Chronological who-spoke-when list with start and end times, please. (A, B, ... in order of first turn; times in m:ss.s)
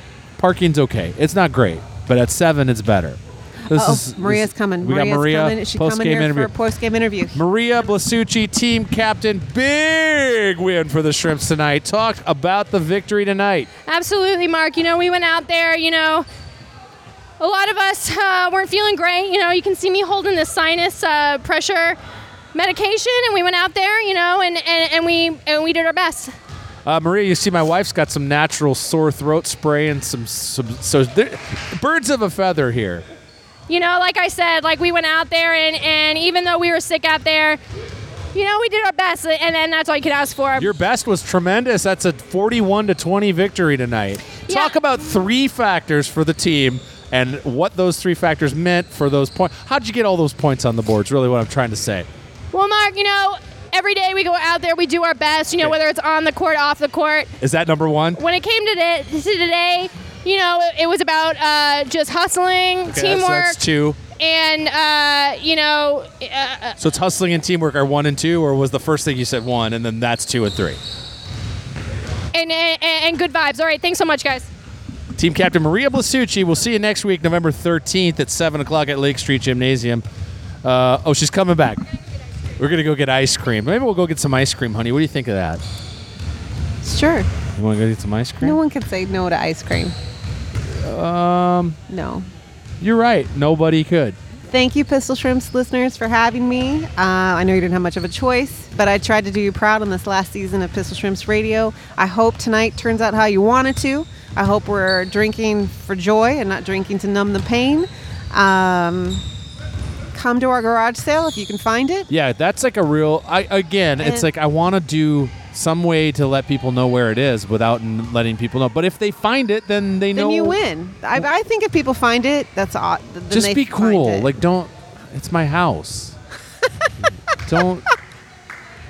0:00.4-0:06.5 A
0:03.7-0:07.4 B
0:07.3-0:13.7 A
0:13.9-0:16.3 C
0:17.4-0:22.0 C
0:22.5-0:26.3 C
0:26.8-0:33.0 A
0:33.7-0:37.6 C
0:38.3-0:40.7 C
0:40.6-0:52.1 A
0:44.5-0:44.8 C
0:52.5-0:57.3 C
0:57.4-0:58.2 A
0:58.2-1:03.6 C
1:02.9-1:04.0 A
1:04.2-1:06.8 C
1:06.8-1:10.8 A
1:12.3-1:14.5 C
1:15.2-1:20.0 A
1:20.6-1:21.8 A
1:22.6-1:25.6 A
1:26.8-1:27.3 B
1:27.6-1:28.6 A
1:28.4-1:29.9 B
1:30.6-1:31.8 A
1:31.9-1:32.3 B
1:32.8-1:34.2 A
1:34.5-1:49.2 B
1:50.1-1:52.1 B
1:52.1-2:00.6 A
1:54.0-1:54.3 B
2:00.2-2:04.3 B
2:03.3-2:06.2 A
2:07.3-2:07.9 A